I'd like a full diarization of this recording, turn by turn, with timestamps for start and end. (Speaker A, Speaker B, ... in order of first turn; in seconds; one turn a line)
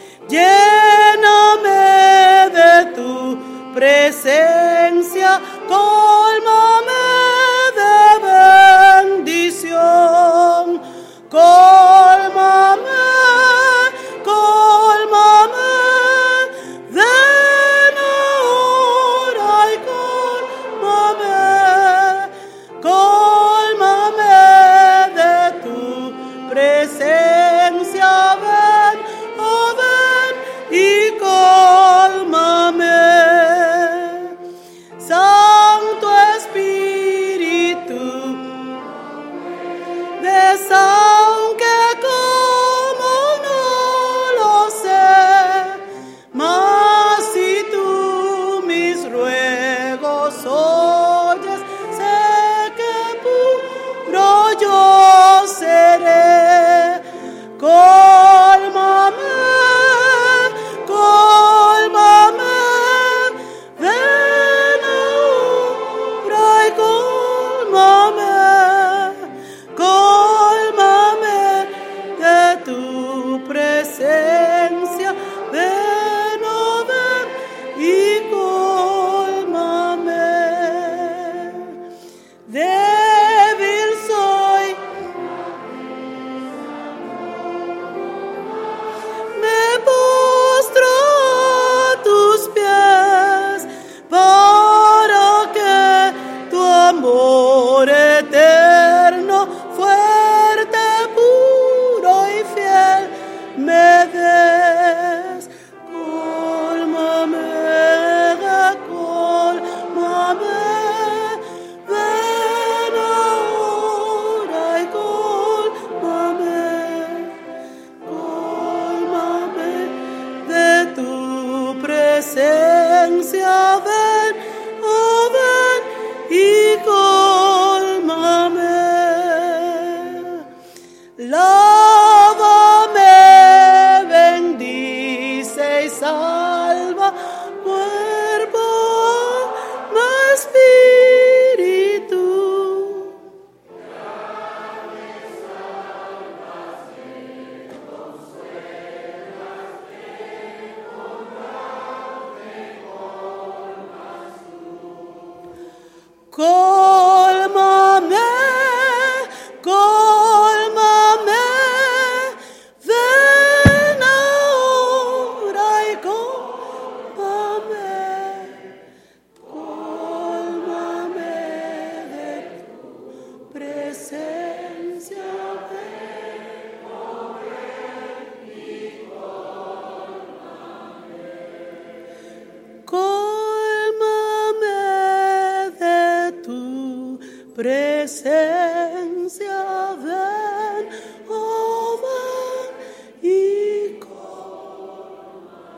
Speaker A: 0.3-34.3
Speaker A: 35.0-38.7
Speaker A: 40.2-45.8
Speaker A: 46.3-57.0
Speaker A: 57.6-81.7
Speaker A: 82.5-84.8
Speaker A: 89.3-117.3
Speaker A: 118.0-130.4
Speaker A: 131.2-143.2
Speaker A: 156.3-168.6
Speaker A: 169.5-172.6
Speaker A: 173.5-176.0
Speaker A: 182.9-194.6